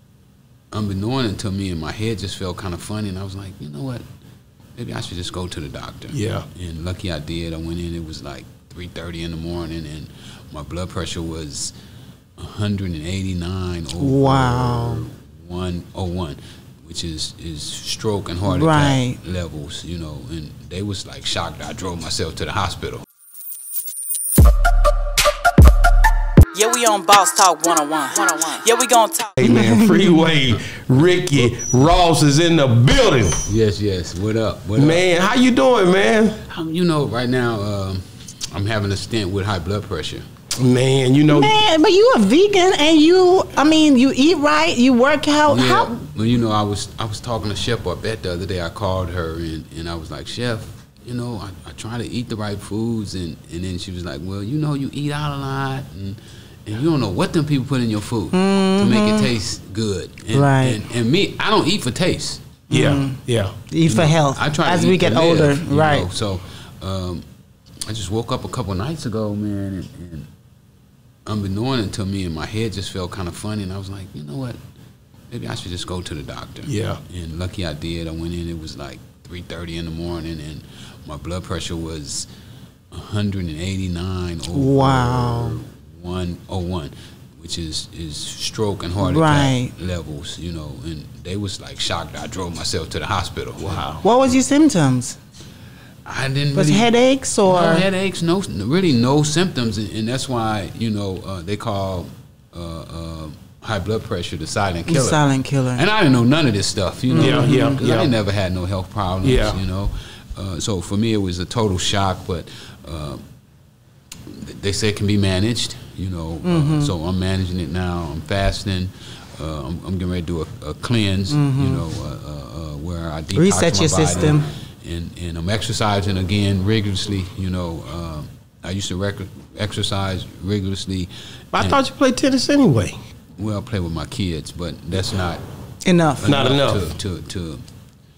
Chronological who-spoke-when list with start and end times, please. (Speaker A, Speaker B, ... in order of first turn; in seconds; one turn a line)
Speaker A: 0.7-4.0
Speaker A: 4.8-11.7
Speaker B: 6.1-6.5
Speaker A: 12.4-23.1
Speaker C: 14.0-15.0
Speaker C: 18.5-19.2
Speaker D: 26.5-29.5
Speaker C: 29.4-30.3
Speaker B: 29.4-33.4
Speaker A: 30.5-30.8
Speaker A: 33.5-35.1
Speaker B: 34.8-36.4
Speaker A: 36.5-40.3
Speaker B: 40.6-41.6
Speaker C: 41.3-45.9
Speaker A: 45.5-62.5
Speaker C: 58.3-59.3
Speaker C: 60.3-60.8
Speaker C: 62.7-63.2
Speaker B: 62.7-63.5
Speaker C: 63.7-66.1
Speaker A: 63.8-67.2
Speaker A: 67.9-70.3
Speaker A: 71.3-74.6
Speaker A: 75.3-82.3
Speaker B: 76.7-77.0
Speaker A: 82.9-94.4
Speaker C: 84.5-85.6
Speaker C: 89.0-89.7
Speaker B: 93.7-94.0
Speaker C: 94.0-95.2
Speaker A: 96.0-96.9
Speaker C: 96.5-97.9
Speaker A: 97.5-113.2
Speaker C: 104.9-105.8
Speaker C: 107.1-107.8
Speaker B: 107.2-108.1
Speaker B: 109.2-109.6
Speaker A: 114.3-131.8
Speaker C: 116.4-116.9
Speaker C: 121.3-121.8
Speaker C: 123.3-124.5
Speaker B: 131.5-133.0
Speaker A: 133.4-135.4
Speaker C: 135.8-136.3
Speaker A: 136.2-137.6
Speaker B: 136.2-136.8